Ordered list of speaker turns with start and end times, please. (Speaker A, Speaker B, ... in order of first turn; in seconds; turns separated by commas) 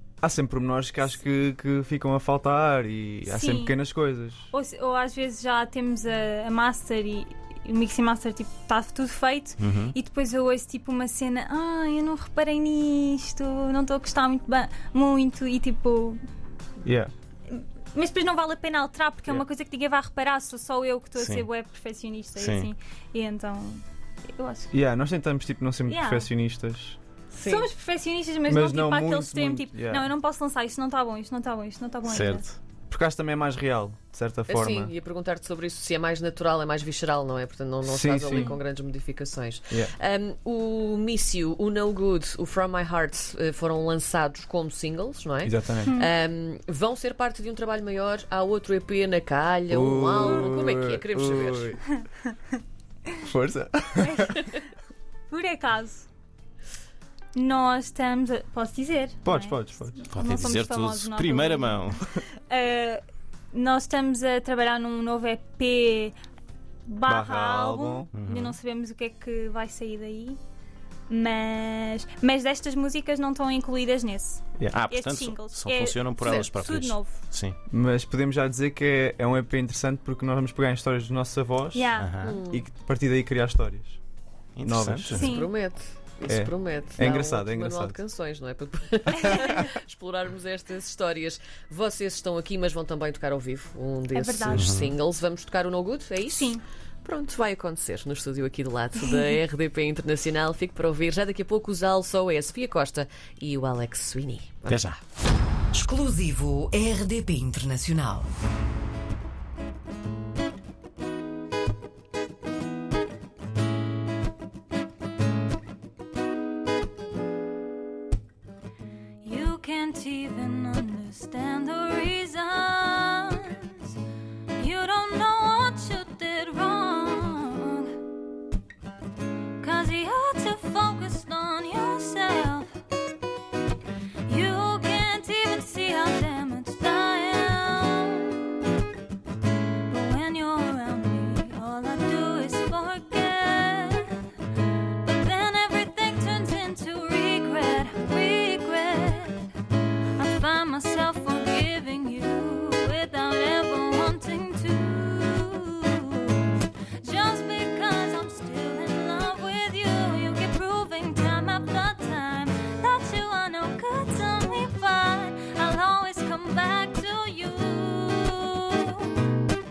Speaker A: 0.2-4.5, Speaker B: 3.2-3.8, Speaker B: 4.5-16.2, Speaker C: 9.6-9.9, Speaker A: 16.8-17.1, Speaker B: 17.5-23.8, Speaker C: 21.2-21.4, Speaker C: 22.4-22.7, Speaker B: 24.4-24.7, Speaker A: 24.7-27.0, Speaker B: 25.9-26.3, Speaker D: 27.3-27.7, Speaker B: 27.4-32.4, Speaker A: 28.5-30.1, Speaker C: 32.0-32.6, Speaker A: 32.9-34.9, Speaker D: 34.5-51.8, Speaker A: 37.8-38.6, Speaker B: 38.3-38.6, Speaker A: 39.7-39.9, Speaker A: 45.4-46.0, Speaker B: 45.8-46.1, Speaker A: 49.7-51.8, Speaker A: 53.2-54.4, Speaker B: 55.3-56.1, Speaker B: 57.4-66.2, Speaker A: 59.2-60.0, Speaker C: 60.1-62.0, Speaker B: 66.9-70.4, Speaker A: 67.0-68.1, Speaker C: 68.1-68.6, Speaker B: 71.1-77.2, Speaker C: 74.7-77.6, Speaker D: 76.2-76.5, Speaker A: 77.7-81.9, Speaker B: 81.7-82.1, Speaker C: 82.0-82.4, Speaker D: 82.2-82.7, Speaker A: 82.5-84.0, Speaker C: 84.5-85.3, Speaker A: 84.6-85.4, Speaker B: 85.1-85.5, Speaker D: 85.1-104.8, Speaker A: 86.3-88.0, Speaker B: 89.2-89.6, Speaker B: 94.1-94.7, Speaker C: 94.5-94.9, Speaker B: 96.3-96.6, Speaker B: 99.0-99.4, Speaker C: 104.7-105.0, Speaker E: 105.7-108.3, Speaker B: 119.2-123.9, Speaker B: 124.5-128.0, Speaker B: 129.6-132.8, Speaker B: 134.2-138.5, Speaker B: 139.9-144.2, Speaker B: 145.0-149.5, Speaker B: 150.1-169.2